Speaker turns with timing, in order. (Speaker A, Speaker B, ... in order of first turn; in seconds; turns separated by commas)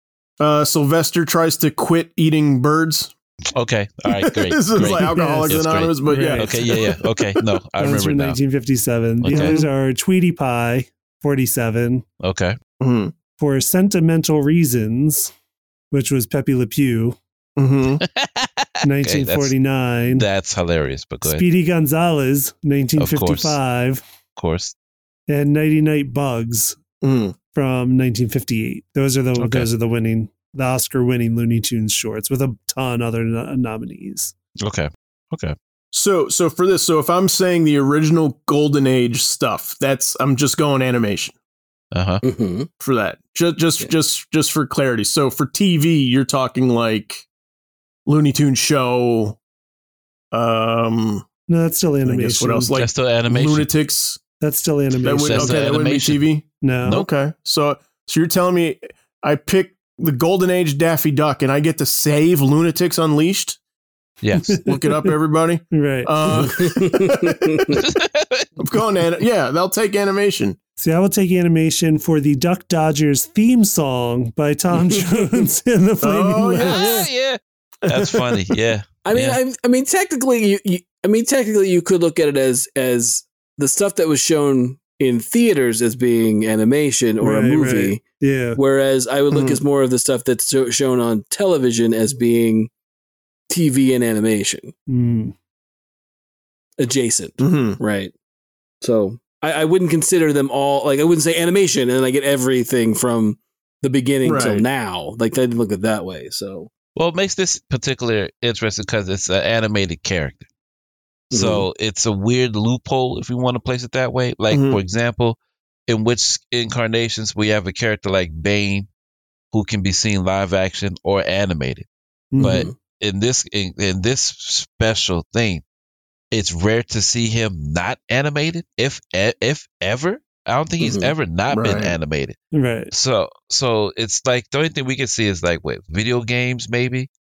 Speaker A: 0.4-3.1, Speaker B: 3.5-8.4, Speaker A: 4.1-7.4, Speaker C: 4.8-6.5, Speaker C: 7.8-12.1, Speaker B: 9.2-9.6, Speaker A: 9.3-9.7, Speaker B: 12.2-12.6, Speaker A: 12.8-13.1, Speaker C: 13.4-15.3, Speaker C: 15.9-17.2, Speaker A: 17.6-18.0, Speaker B: 18.0-19.5, Speaker C: 18.8-20.3, Speaker B: 20.1-21.4, Speaker C: 21.2-24.0, Speaker B: 23.0-23.6, Speaker B: 24.4-24.7, Speaker C: 25.3-26.8, Speaker A: 27.0-27.4, Speaker C: 27.5-34.3, Speaker B: 29.4-29.7, Speaker B: 34.6-35.5, Speaker A: 35.9-41.3, Speaker B: 41.9-42.2, Speaker D: 42.2-42.7, Speaker A: 42.8-47.3, Speaker A: 48.0-49.4, Speaker A: 50.3-51.2, Speaker C: 51.5-52.7, Speaker A: 52.0-54.2, Speaker B: 52.7-53.7, Speaker C: 54.4-55.7, Speaker A: 55.0-63.6, Speaker B: 55.0-56.2, Speaker C: 56.6-57.0, Speaker B: 64.2-64.6, Speaker C: 64.4-65.1, Speaker A: 64.6-67.6, Speaker C: 65.7-66.1, Speaker D: 66.5-67.8, Speaker B: 67.7-68.5, Speaker A: 68.6-70.6, Speaker C: 70.8-76.9, Speaker A: 76.0-77.1, Speaker B: 76.6-79.4, Speaker A: 77.9-78.5, Speaker D: 79.0-88.0, Speaker C: 87.2-88.6, Speaker D: 88.5-92.7, Speaker A: 89.3-89.6, Speaker D: 93.5-94.7, Speaker C: 94.9-95.3, Speaker D: 96.8-98.1, Speaker A: 97.4-97.8, Speaker D: 98.8-106.7, Speaker A: 104.2-104.6, Speaker B: 107.0-110.4, Speaker D: 111.3-111.7, Speaker B: 111.3-118.9, Speaker A: 114.5-114.8, Speaker B: 119.5-121.9, Speaker C: 122.3-122.7, Speaker D: 122.4-122.7, Speaker B: 122.4-125.6, Speaker B: 126.3-132.4, Speaker D: 130.8-131.1, Speaker A: 131.5-131.9, Speaker C: 132.5-132.9, Speaker B: 132.9-137.1